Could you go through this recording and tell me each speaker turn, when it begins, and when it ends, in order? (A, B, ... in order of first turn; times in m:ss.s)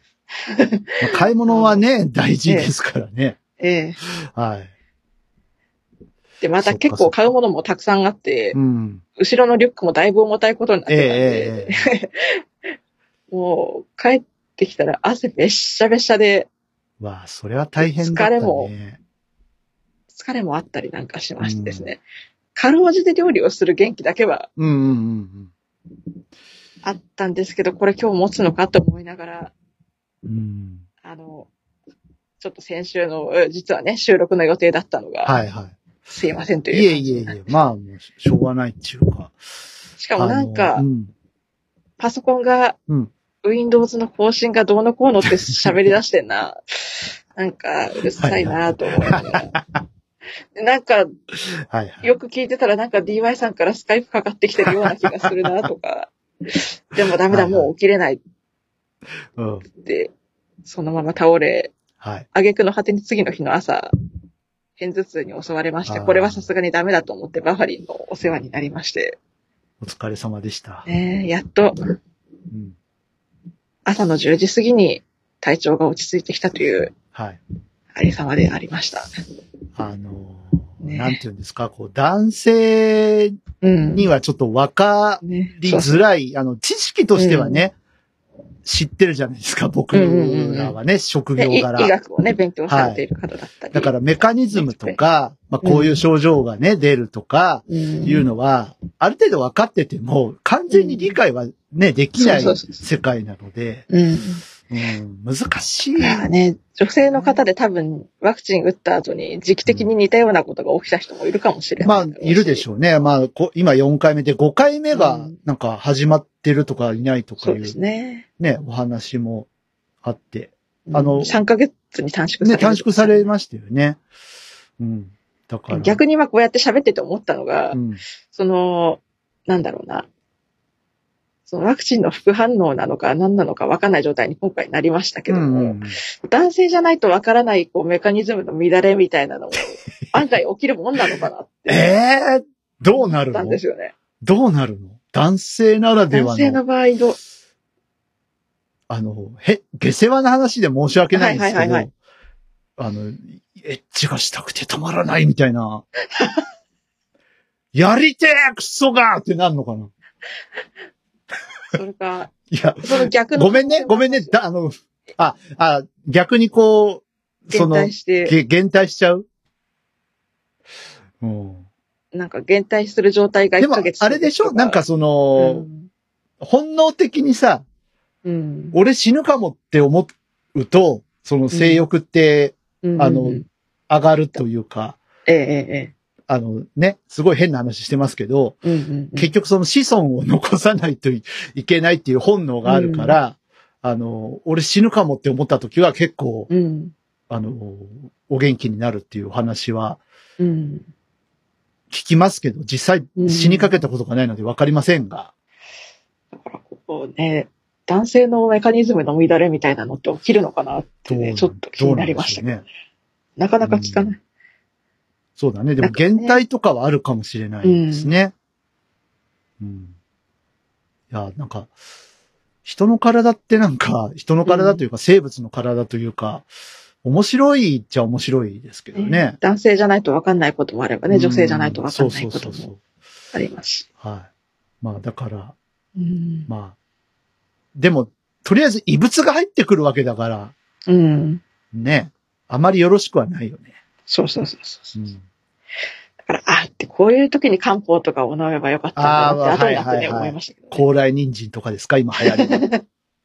0:00.4-0:01.8 A
0:01.0-0:03.4 B
0:02.4-0:02.7 A
0:03.6-0:04.0 A
0:04.0-0:04.7 B
0:06.4-0:08.6 A
0:06.6-0:07.3 B
0:08.5-0:09.0 B
0:09.2-0:12.4 A
0:10.9-0:11.8 B
0:13.3-0:16.5 A
0:17.0-0:19.0 B
0:17.8-0:18.7 A
0:20.1-0:22.0 A
0:21.4-0:21.9 B
0:22.5-0:24.5 A
0:24.6-0:25.5 B
0:26.8-0:29.5 A
0:30.2-0:30.8 B
0:31.0-0:31.5 A
0:32.4-0:35.3 A
0:35.2-0:35.7 B
0:36.1-0:37.4 A
0:36.7-0:39.3 B
0:40.0-0:40.8 A
0:40.2-0:41.1 B
0:42.0-0:42.8 A
0:43.4-0:49.5 A
0:48.2-0:49.8 B
0:50.6-0:51.1 A
0:51.6-0:52.1 B
0:52.0-0:58.2 A
0:57.3-0:57.7 B
0:59.4-0:59.6 B
0:59.7-1:00.1 A
1:00.6-1:01.7 A
1:02.0-1:02.2 B
1:02.3-1:03.9 A
1:04.8-1:09.2 A
1:05.9-1:06.5 B
1:09.8-1:10.9 B
1:10.8-1:12.0 A
1:12.5-1:12.8 B
1:13.8-1:16.9 A
1:17.1-1:17.4 B
1:17.9-1:19.1 A
1:19.8-1:23.4 B
1:20.8-1:21.2 A
1:23.6-1:24.1 A
1:24.0-1:27.7 B
1:25.2-1:26.0 A
1:27.2-1:27.6 A
1:28.6-1:31.9 B
1:29.9-1:30.8 A
1:31.4-1:33.9 A
1:32.7-1:33.0 B
1:33.7-1:43.8 B
1:34.5-1:35.0 A
1:35.6-1:36.0 A
1:37.7-1:38.2 A
1:40.7-1:41.1 A
1:42.2-1:42.8 A
1:43.9-1:44.4 A
1:44.7-1:46.2 B
1:46.0-1:52.6 A
1:47.1-1:47.4 B
1:49.6-1:49.9 B
1:51.8-1:57.7 B
1:54.9-1:55.4 A
1:57.4-1:58.2 A
1:58.4-1:59.5 B
2:00.0-2:01.4 B
2:00.9-2:03.3 A
2:02.4-2:04.0 B
2:04.8-2:06.0 B
2:05.7-2:07.8 A
2:07.7-2:08.0 B
2:08.3-2:10.1 A
2:11.5-2:22.0 A
2:15.3-2:16.0 B
2:21.7-2:23.6 B
2:22.9-2:23.9 A
2:24.2-2:26.6 B
2:26.1-2:27.2 A
2:28.9-2:31.9 B
2:31.1-2:31.9 A
2:32.8-2:35.8 B
2:36.2-2:36.4 A
2:37.7-2:39.9 B
2:41.7-2:44.3 A
2:42.5-2:49.2 B
2:47.5-2:48.4 A
2:51.2-2:51.6 B
2:52.1-2:54.8 A
2:53.6-2:55.7 B
2:55.4-2:55.9 A
2:56.4-2:57.6 B
2:58.2-2:58.8 A
2:58.7-3:05.0 B
3:01.5-3:01.8 A
3:02.8-3:03.5 A
3:05.3-3:05.9 A
3:06.3-3:08.6 B
3:08.6-3:09.3 A
3:09.2-3:16.5 B
3:12.6-3:13.2 A
3:16.5-3:16.9 A
3:17.3-3:20.0 B
3:20.4-3:20.8 A
3:21.9-3:25.3 B
3:23.2-3:23.7 A
3:26.3-3:32.6 A
3:31.1-3:32.6 B
3:33.4-3:34.2 A
3:33.6-3:34.1 B
3:35.4-3:38.3 B
3:35.8-3:36.4 A
3:37.6-3:38.1 A
3:39.6-3:39.9 B
3:41.1-3:41.7 B
3:42.6-3:46.5 B
3:44.4-3:44.8 A
3:47.0-3:49.4 B
3:48.9-3:52.7 A
3:51.1-3:52.8 B
3:53.3-3:53.8 A
3:54.0-3:54.3 B
3:54.8-3:55.6 B
3:56.0-3:56.5 A
3:56.5-3:56.8 B
3:57.7-4:00.5 B
4:00.9-4:01.4 A
4:01.7-4:03.7 B
4:04.1-4:05.1 A
4:04.9-4:05.2 B
4:06.2-4:10.9 A
4:09.0-4:12.6 B
4:12.2-4:12.8 A